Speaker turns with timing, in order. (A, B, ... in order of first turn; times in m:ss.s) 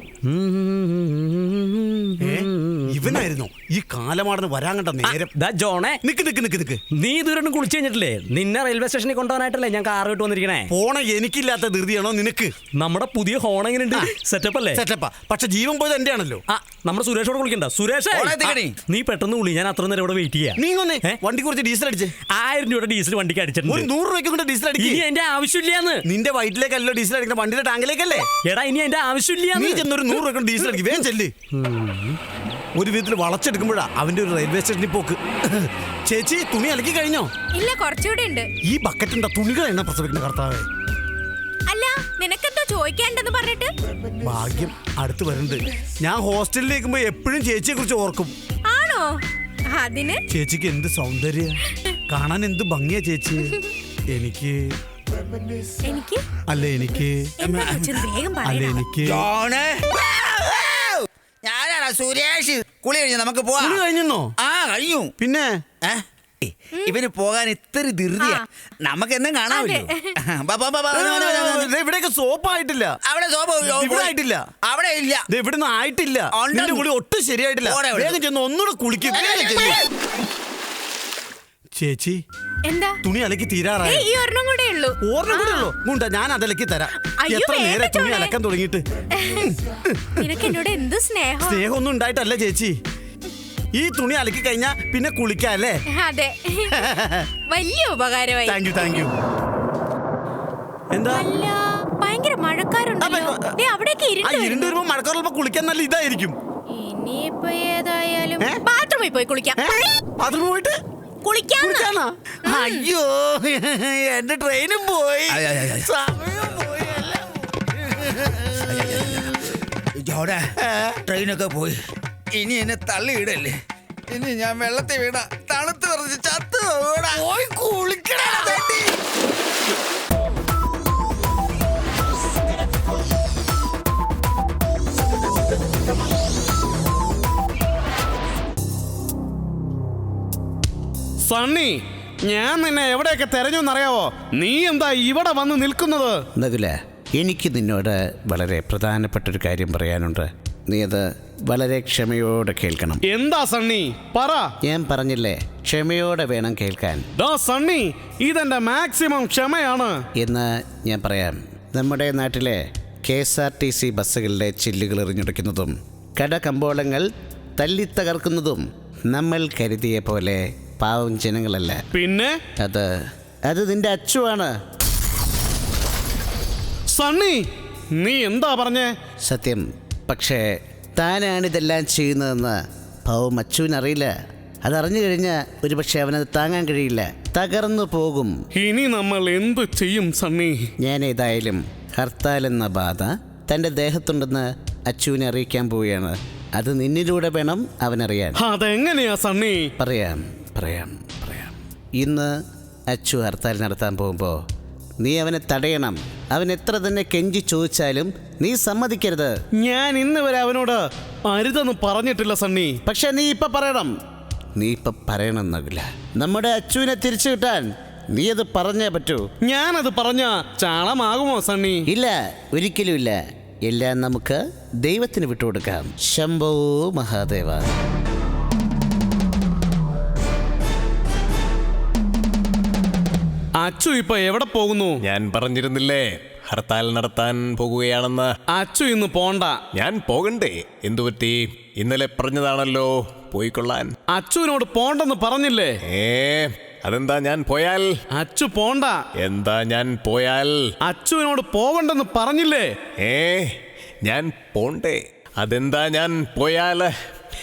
0:00.2-0:03.2 A
0:02.2-0:05.3 B
0:05.0-0:06.0 A
0:06.0-0:06.8 B
0:06.9-0:10.7 A
0:10.7-0:12.5 B
0:12.7-0:14.8 A
0:14.8-0:16.4 B
0:16.5-0:21.2 A
0:18.1-0:18.8 C
0:20.6-0:22.1 B
0:22.3-0:23.9 A
0:23.7-0:25.0 B
0:24.8-0:26.0 A
0:26.0-0:28.3 B
0:28.4-0:29.9 A
0:29.5-0:31.3 B
0:31.6-0:32.2 A
0:32.8-0:37.3 B
0:37.5-0:38.5 D
0:38.7-0:40.7 B
0:41.7-0:43.7 D
0:44.2-0:48.4 B
0:48.7-0:49.2 D
0:49.7-0:50.2 D
0:50.3-0:51.6 B
0:52.1-0:53.5 B
0:54.1-0:54.8 B
0:55.8-0:56.2 D
0:56.5-0:57.3 B
0:57.4-0:58.8 D
0:57.4-0:58.0 C
0:58.4-0:59.2 B
0:59.0-1:03.8 C
1:03.6-1:04.3 B
1:04.4-1:05.1 C
1:05.2-1:05.6 B
1:05.8-1:11.7 C
1:09.5-1:10.1 D
1:10.9-1:13.0 B
1:13.0-1:15.3 C
1:13.6-1:14.4 B
1:15.3-1:19.8 B
1:16.3-1:16.9 C
1:17.6-1:18.2 C
1:19.2-1:19.8 C
1:21.8-1:22.2 B
1:22.7-1:23.0 D
1:23.0-1:24.0 B
1:23.8-1:25.7 D
1:25.0-1:28.8 B
1:27.0-1:28.4 D
1:29.2-1:29.5 D
1:29.4-1:30.2 B
1:30.2-1:31.6 D
1:31.4-1:32.8 B
1:33.8-1:35.8 B
1:36.0-1:36.9 D
1:36.8-1:37.3 B
1:37.5-1:39.1 D
1:38.5-1:39.1 B
1:40.9-1:41.2 B
1:41.1-1:44.8 D
1:43.0-1:43.6 B
1:44.2-1:46.4 B
1:46.7-1:49.9 D
1:49.6-1:50.8 B
1:51.2-1:51.9 D
1:51.6-1:57.1 B
1:52.4-1:52.9 D
1:55.3-1:55.9 C
1:58.5-1:59.4 C
2:00.0-2:00.5 C
2:00.6-2:01.0 B
2:01.1-2:01.8 C
2:02.3-2:03.6 C
2:04.1-2:09.0 C
2:21.3-2:26.2 E
2:26.4-2:33.0 F
2:33.1-2:34.5 E
2:34.6-2:37.1 F
2:37.2-2:40.0 E
2:40.2-2:51.8 F
2:51.9-2:52.4 E
2:52.6-2:54.6 F
2:56.9-2:57.4 E
2:58.0-2:58.9 E
2:59.3-3:08.4 F
3:08.6-3:10.7 E
3:10.8-3:18.4 F
3:18.4-3:19.7 E
3:19.8-3:22.4 F
3:22.9-3:24.4 F
3:25.0-3:29.4 F
3:29.6-3:32.8 E
3:32.9-3:33.9 F
3:34.6-3:39.2 F
3:39.4-3:41.8 E
3:41.9-3:47.7 F
3:53.6-3:55.0 E
3:55.0-3:58.3 G
3:58.5-3:59.6 E
3:59.7-4:04.0 G
4:04.1-4:05.8 E
4:05.8-4:08.0 G
4:08.2-4:09.0 E
4:09.2-4:10.7 G
4:10.9-4:12.7 E
4:13.0-4:16.9 G